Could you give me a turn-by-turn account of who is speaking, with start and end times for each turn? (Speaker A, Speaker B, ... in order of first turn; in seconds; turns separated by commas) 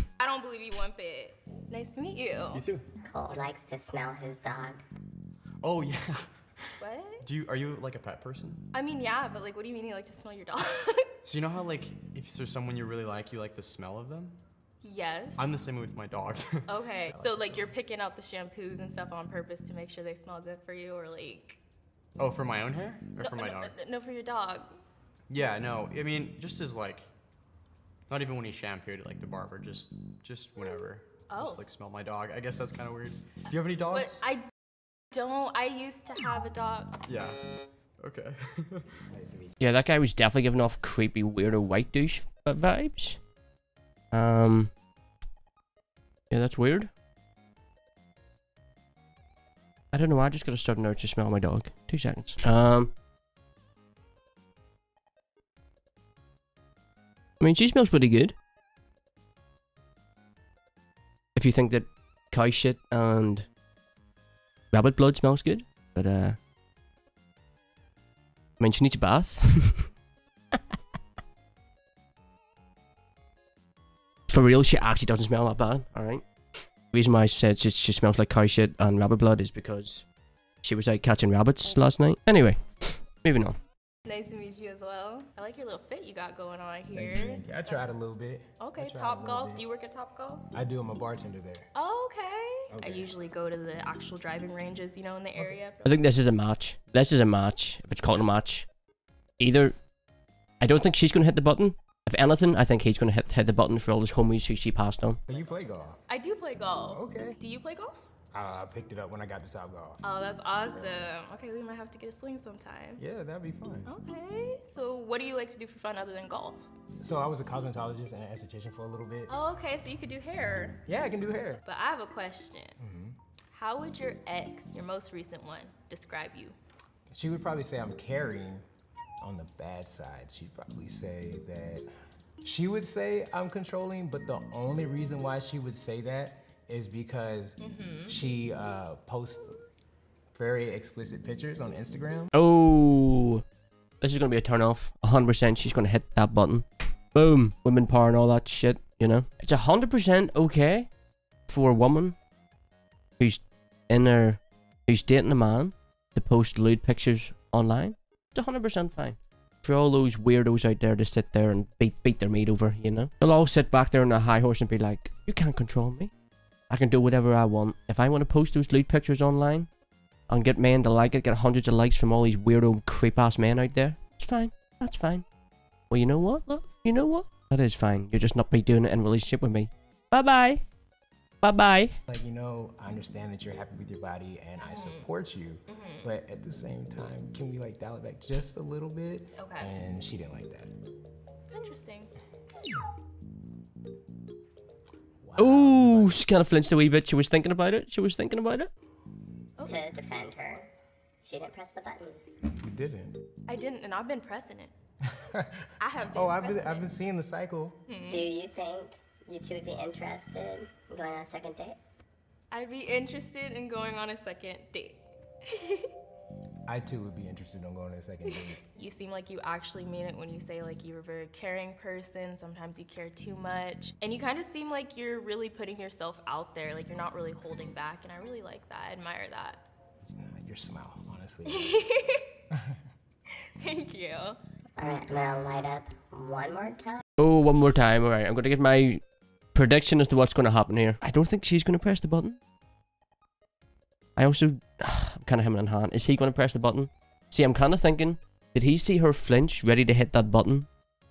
Speaker A: 0.2-2.6, Speaker B: 2.5-2.9, Speaker C: 3.0-4.8, Speaker B: 5.6-8.7, Speaker A: 6.8-7.2, Speaker A: 8.7-11.1, Speaker B: 11.2-14.4, Speaker A: 14.8-15.6, Speaker B: 15.3-17.7, Speaker A: 16.7-21.6, Speaker B: 22.2-23.7, Speaker A: 23.2-24.8, Speaker B: 25.3-27.1, Speaker B: 28.1-34.2, Speaker A: 31.3-31.6, Speaker A: 33.9-34.4, Speaker A: 35.1-37.0, Speaker B: 37.0-37.4, Speaker B: 38.0-38.9, Speaker D: 39.1-39.5, Speaker E: 39.6-43.2, Speaker E: 44.1-44.7, Speaker E: 46.3-46.9, Speaker E: 49.9-52.9, Speaker E: 57.4-58.3, Speaker E: 61.3-63.5, Speaker E: 64.7-66.4, Speaker E: 68.6-69.9, Speaker E: 74.3-76.2, Speaker E: 76.9-80.0, Speaker E: 80.6-83.5, Speaker A: 84.0-87.9, Speaker D: 86.9-89.6, Speaker A: 88.6-90.5, Speaker D: 90.5-91.7, Speaker A: 91.7-96.0, Speaker D: 92.7-93.1, Speaker E: 95.8-98.7, Speaker E: 99.4-99.7, Speaker E: 100.6-105.2, Speaker D: 105.3-106.0, Speaker A: 106.1-108.0, Speaker D: 106.8-107.4, Speaker D: 108.3-110.0, Speaker A: 110.0-113.0, Speaker D: 113.0-113.9, Speaker A: 113.8-116.6, Speaker D: 117.0-119.4, Speaker A: 119.3-120.8, Speaker D: 120.9-121.6, Speaker A: 121.6-122.8, Speaker D: 122.8-123.2, Speaker A: 123.5-126.5, Speaker D: 127.1-128.6, Speaker D: 129.2-131.9, Speaker D: 132.4-139.6, Speaker A: 137.6-138.2, Speaker D: 140.3-142.3, Speaker E: 142.3-143.4, Speaker E: 144.0-150.9, Speaker E: 151.5-152.2, Speaker E: 153.2-166.1, Speaker E: 166.7-169.7, Speaker E: 170.3-175.2, Speaker E: 175.9-180.6, Speaker E: 181.4-181.9, Speaker D: 182.1-190.7, Speaker A: 184.6-185.0, Speaker A: 185.7-186.1, Speaker A: 189.3-189.7, Speaker A: 191.5-192.1, Speaker D: 195.2-196.2, Speaker E: 195.4-198.7, Speaker A: 199.6-199.8, Speaker C: 199.6-200.7, Speaker C: 201.2-202.2, Speaker D: 202.6-203.2, Speaker A: 203.5-204.7, Speaker D: 205.2-207.8, Speaker A: 205.8-206.9, Speaker A: 207.9-208.2, Speaker C: 208.1-211.8, Speaker A: 212.5-215.9, Speaker D: 216.7-218.6, Speaker A: 218.3-229.6, Speaker D: 230.1-231.8, Speaker A: 231.5-232.3, Speaker A: 233.6-234.4, Speaker C: 234.8-237.0, Speaker E: 237.2-239.0, Speaker E: 239.5-242.4, Speaker E: 244.2-250.7